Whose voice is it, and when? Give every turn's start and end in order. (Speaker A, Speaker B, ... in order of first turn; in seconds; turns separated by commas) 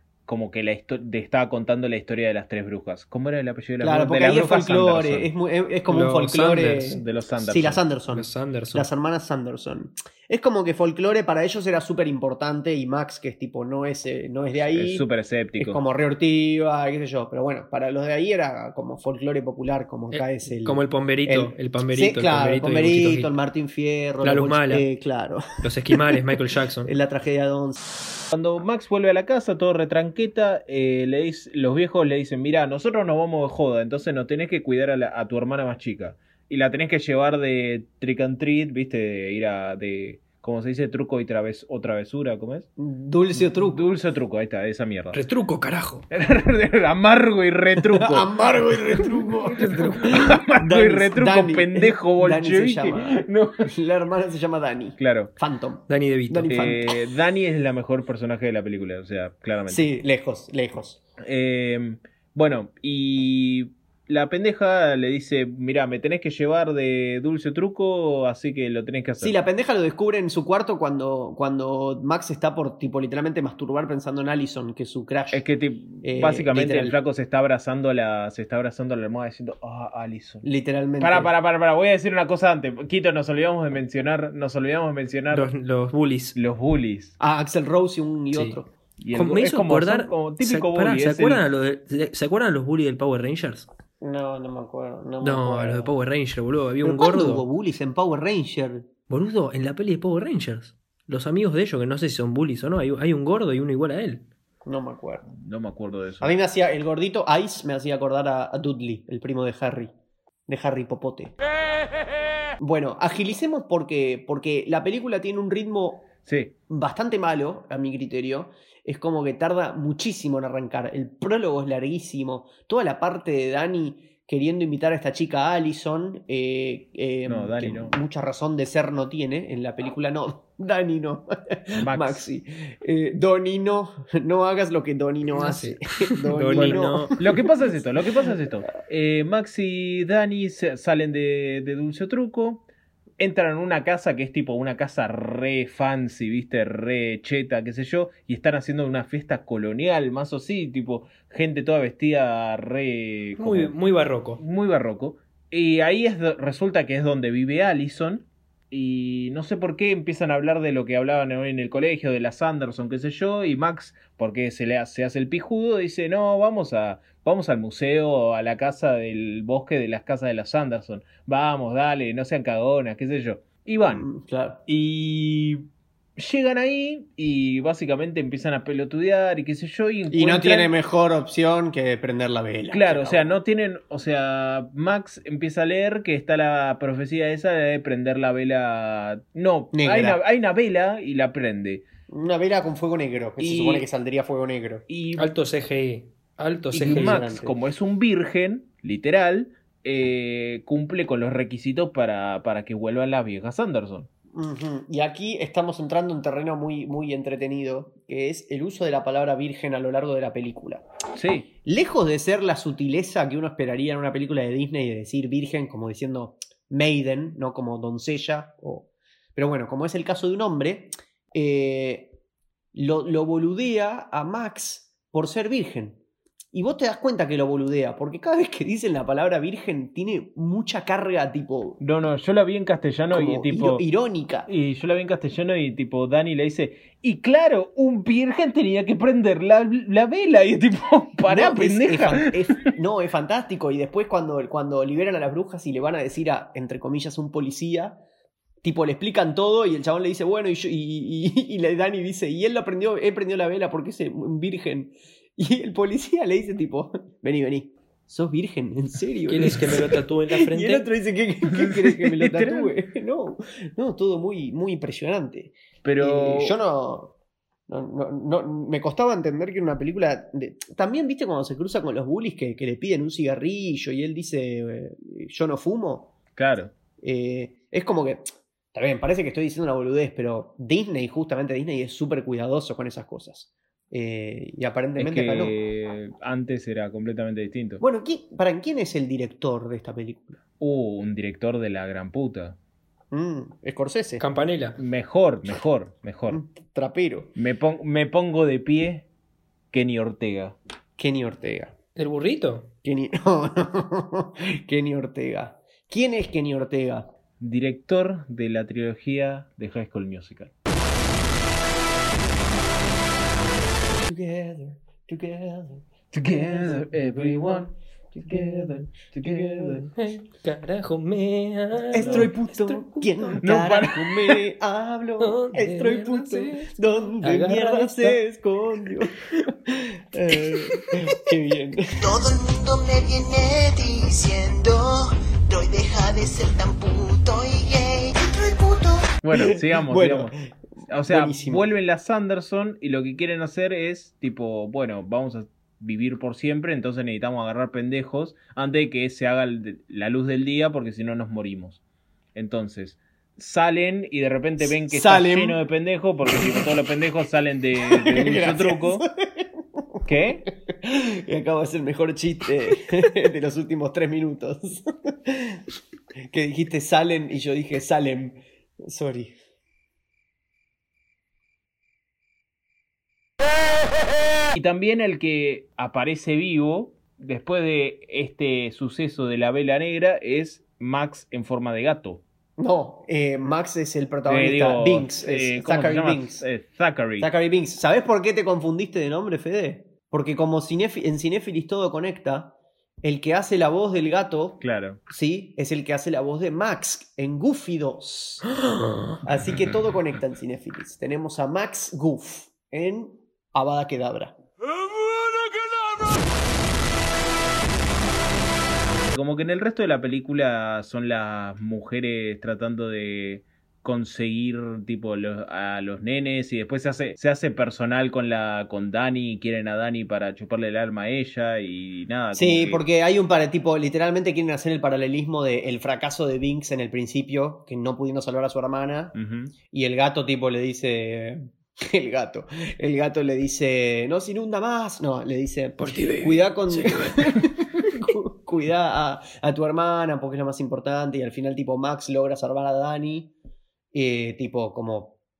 Speaker A: 0.2-5.3, Speaker B: 3.8-15.1, Speaker C: 5.9-7.0, Speaker A: 6.9-7.8, Speaker C: 8.1-8.9, Speaker A: 14.7-15.8, Speaker B: 15.6-27.8, Speaker C: 20.1-23.3, Speaker C: 24.2-24.9, Speaker C: 25.6-26.9, Speaker A: 28.3-42.7, Speaker B: 42.8-43.8, Speaker A: 43.4-45.2, Speaker C: 45.1-46.0, Speaker A: 46.1-48.3, Speaker B: 47.8-57.0, Speaker A: 49.0-53.7, Speaker A: 55.0-55.3, Speaker C: 55.9-56.5, Speaker A: 56.5-59.9, Speaker B: 59.7-61.0, Speaker A: 61.2-69.3, Speaker B: 69.2-75.4, Speaker A: 75.3-80.5, Speaker B: 76.0-77.0, Speaker B: 80.4-81.3, Speaker A: 81.0-85.5, Speaker C: 85.3-86.4, Speaker A: 86.3-87.1, Speaker B: 87.2-88.7, Speaker C: 88.3-88.6, Speaker A: 89.0-91.4, Speaker C: 89.1-93.7, Speaker B: 94.0-95.9, Speaker C: 95.2-97.5, Speaker B: 96.8-98.9, Speaker C: 99.1-104.2, Speaker B: 104.6-105.3, Speaker A: 105.3-106.3, Speaker B: 106.2-109.9, Speaker B: 110.5-111.3, Speaker B: 112.6-116.1, Speaker A: 116.2-116.5, Speaker B: 116.7-137.4, Speaker A: 127.2-127.9, Speaker A: 131.8-132.2, Speaker C: 135.3-137.2, Speaker A: 136.5-142.6, Speaker A: 143.2-153.7, Speaker C: 153.4-154.4, Speaker A: 154.4-174.1, Speaker B: 173.9-174.6, Speaker A: 174.7-175.6, Speaker A: 176.2-180.7, Speaker B: 180.1-183.4, Speaker A: 182.7-191.8, Speaker B: 189.7-190.2, Speaker B: 192.1-194.8, Speaker A: 193.4-193.8, Speaker A: 194.9-195.3, Speaker C: 195.2-197.3, Speaker A: 196.7-204.1, Speaker B: 196.8-197.5, Speaker B: 204.3-210.8, Speaker A: 211.1-211.5, Speaker B: 211.7-222.1, Speaker B: 222.7-226.0, Speaker B: 226.5-231.8, Speaker A: 231.8-233.8, Speaker B: 233.1-234.5, Speaker A: 234.5-242.5, Speaker B: 241.2-248.0, Speaker B: 248.6-267.1, Speaker C: 259.3-260.9, Speaker A: 261.5-262.7, Speaker A: 265.8-266.6, Speaker B: 267.7-276.1, Speaker A: 276.4-276.7, Speaker B: 277.0-285.5, Speaker A: 285.0-287.8, Speaker B: 287.8-290.4, Speaker A: 290.6-292.6, Speaker B: 293.1-294.2, Speaker C: 294.2-294.8, Speaker A: 294.8-296.4, Speaker B: 296.3-297.3, Speaker A: 297.4-299.1, Speaker A: 299.7-300.6, Speaker B: 301.0-301.7, Speaker C: 301.9-302.7, Speaker B: 302.8-307.1, Speaker A: 307.4-310.5, Speaker B: 313.9-319.9, Speaker A: 316.1-319.9, Speaker C: 319.9-323.4, Speaker B: 321.9-332.0, Speaker A: 321.9-322.3, Speaker A: 323.4-324.4, Speaker C: 325.2-328.2, Speaker C: 330.4-330.6, Speaker D: 332.0-339.1, Speaker A: 339.2-340.3, Speaker B: 339.3-341.7, Speaker A: 340.9-351.8, Speaker A: 352.3-359.0, Speaker B: 354.6-355.6, Speaker B: 356.3-356.7, Speaker B: 357.8-365.6, Speaker A: 360.1-360.4, Speaker B: 366.3-369.3, Speaker A: 374.5-382.2, Speaker B: 382.6-386.4, Speaker A: 384.2-387.3, Speaker B: 387.2-398.5, Speaker A: 394.6-395.0, Speaker C: 398.6-399.2, Speaker B: 399.2-404.4, Speaker A: 409.1-422.8, Speaker B: 422.3-429.1, Speaker A: 429.1-429.5, Speaker B: 429.7-443.3, Speaker C: 435.8-437.4, Speaker B: 443.9-445.2